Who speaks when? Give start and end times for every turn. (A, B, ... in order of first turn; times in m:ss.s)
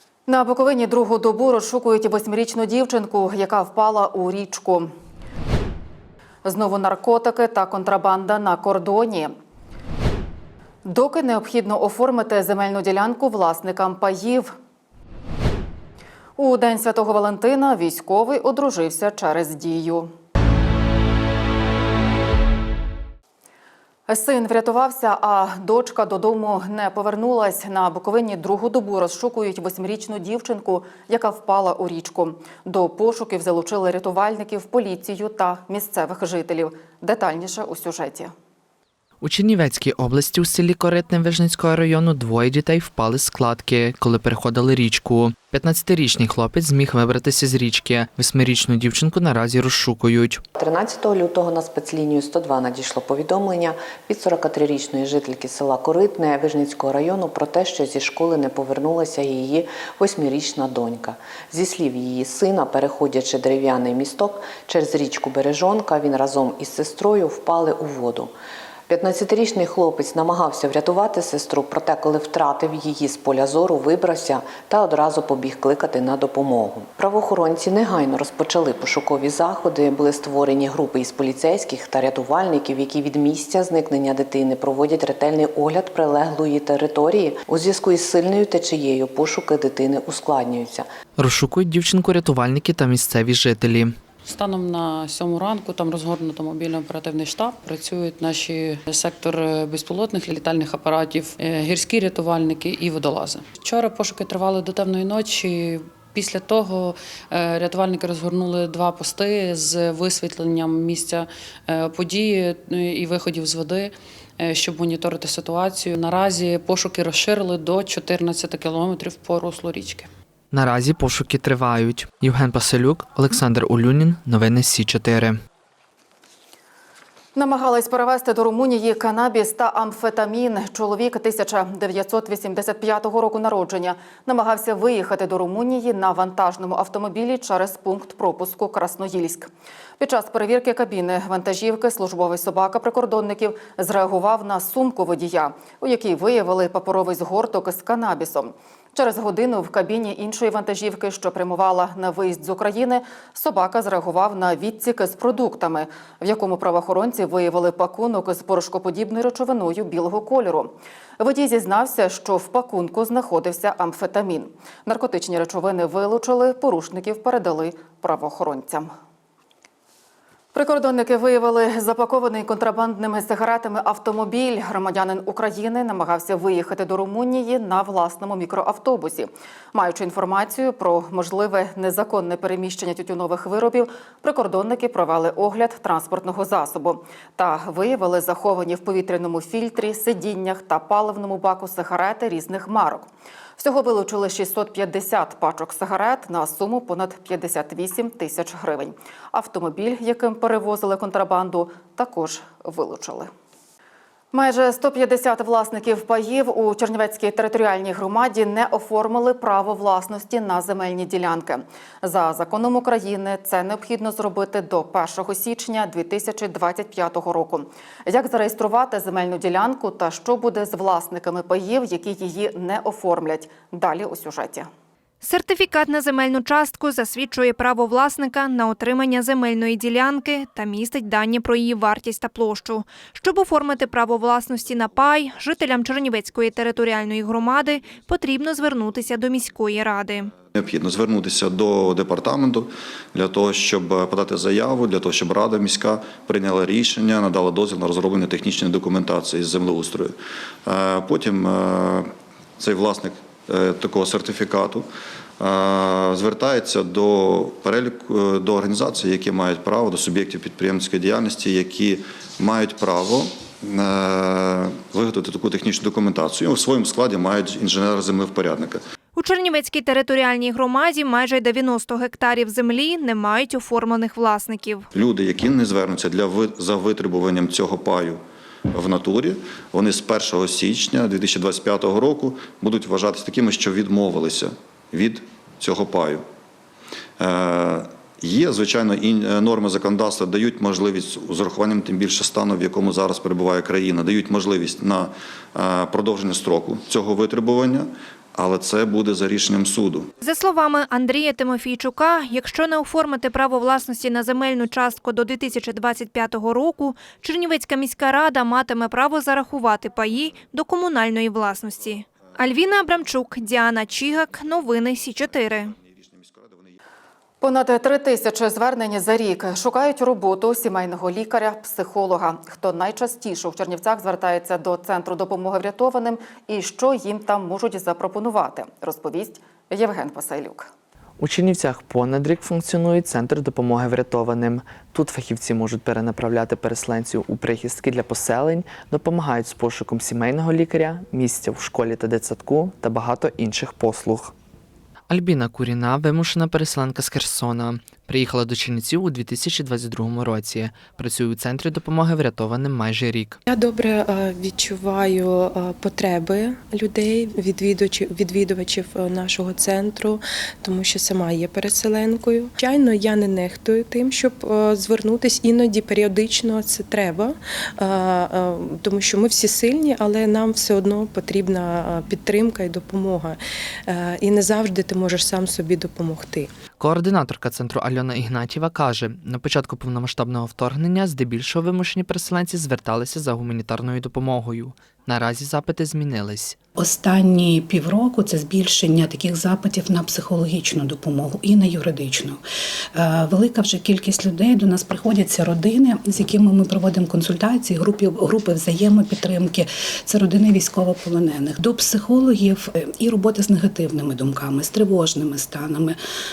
0:00.3-0:04.9 A
0:06.4-0:09.4 A
0:10.8-0:14.5 A
0:16.4-0:20.1 A
0:24.1-0:38.3 A
0:39.2-0:50.4 B
0:50.6-1:08.3 C
1:08.9-1:30.9 C
1:31.2-1:34.0 B
1:34.2-2:00.1 D
2:00.5-2:05.4 B
2:07.4-2:48.9 A
2:50.5-3:23.3 A
3:24.3-3:44.7 A
3:45.2-4:00.3 E
4:00.5-4:14.9 F
4:15.4-4:28.8 F
4:29.2-4:34.9 E
4:34.9-4:46.3 F
4:47.2-5:00.1 F
5:00.2-5:15.7 E
5:16.4-5:16.7 F
5:17.4-5:30.7 A
5:31.2-5:44.3 B
5:45.1-5:53.4 B
5:53.5-6:07.3 G
6:07.9-6:13.4 G
6:13.9-6:16.5 G
6:16.8-6:26.6 B
6:26.8-6:32.4 H
6:32.9-6:46.0 H